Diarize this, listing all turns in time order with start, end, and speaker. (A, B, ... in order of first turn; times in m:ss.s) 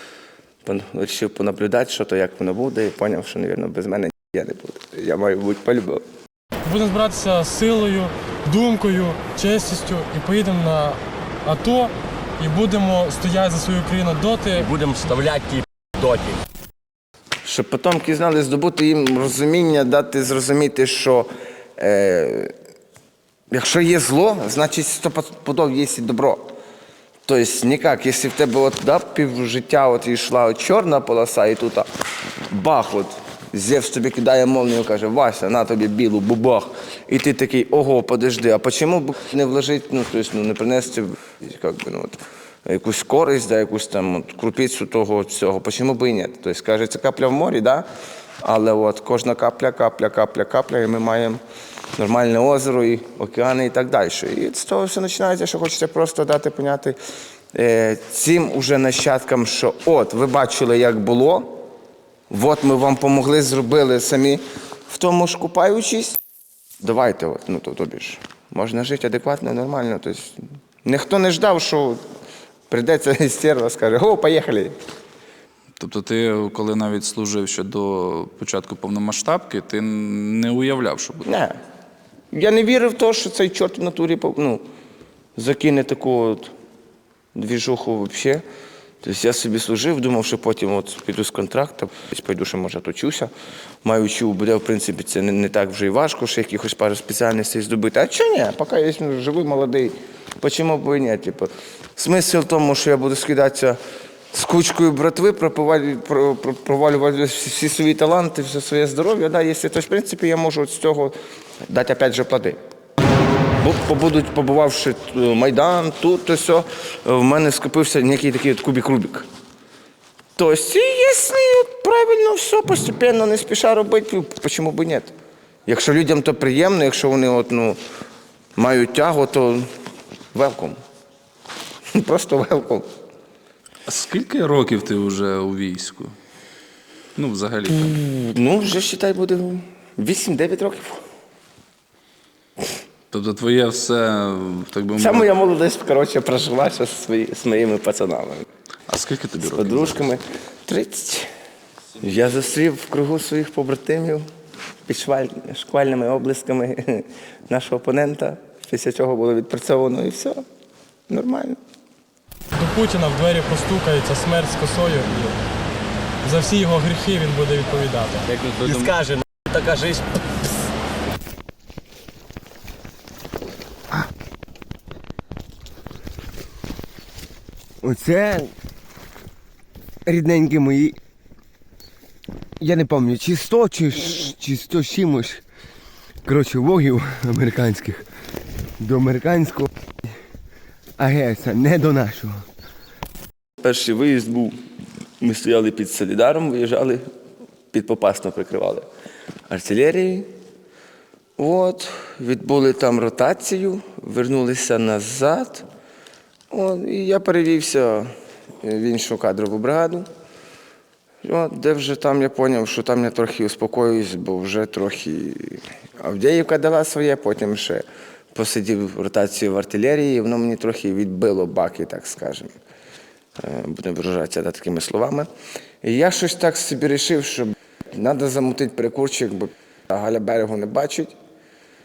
0:00.6-0:06.0 A
0:06.6-0:14.7 B
0:14.6-0:16.4 C
0:17.4-0:22.5 A
0:23.5-0:26.5 A
0:27.2-0:31.9 A
0:32.5-0:47.9 A
0:48.4-0:51.4 A
0:51.9-0:57.0 A
0:57.5-1:01.6 A
1:02.3-1:06.2 A
1:06.8-1:12.0 A
1:12.7-1:14.7 A
1:15.8-1:21.3 D
1:21.2-1:21.5 A
1:22.3-1:24.6 A
1:25.4-1:26.5 A
1:27.4-1:28.4 A
1:29.0-1:33.3 A
1:33.8-1:43.8 A
1:44.3-1:51.2 A
1:51.7-1:52.6 A
1:53.6-1:59.2 A
2:00.4-2:05.1 A
2:05.7-2:07.8 A
2:08.6-2:09.7 A
2:10.3-2:10.8 A
2:11.9-2:12.9 A
2:13.9-2:16.2 D
2:17.2-2:18.0 D
2:17.9-2:21.0 A
2:23.1-2:25.3 D
2:25.0-2:28.5 A
2:28.9-2:30.0 D
2:29.4-2:31.3 A
2:32.0-2:34.3 A
2:34.9-2:40.4 A
2:41.1-2:41.6 A
2:42.5-2:45.4 B
2:46.2-2:48.3 B
2:48.3-2:50.2 C
2:57.8-2:58.5 E
3:00.0-3:01.0 E
3:02.6-3:05.4 E
3:06.2-3:08.1 E
3:08.8-3:09.7 E
3:11.0-3:12.4 E
3:13.6-3:14.6 A
3:15.2-3:17.1 A
3:17.7-3:18.9 A
3:19.5-3:20.3 A
3:21.4-3:25.7 A
3:26.5-3:28.1 A
3:28.6-3:30.1 A
3:31.2-3:42.5 A
3:43.4-3:45.3 A
3:45.8-3:51.1 A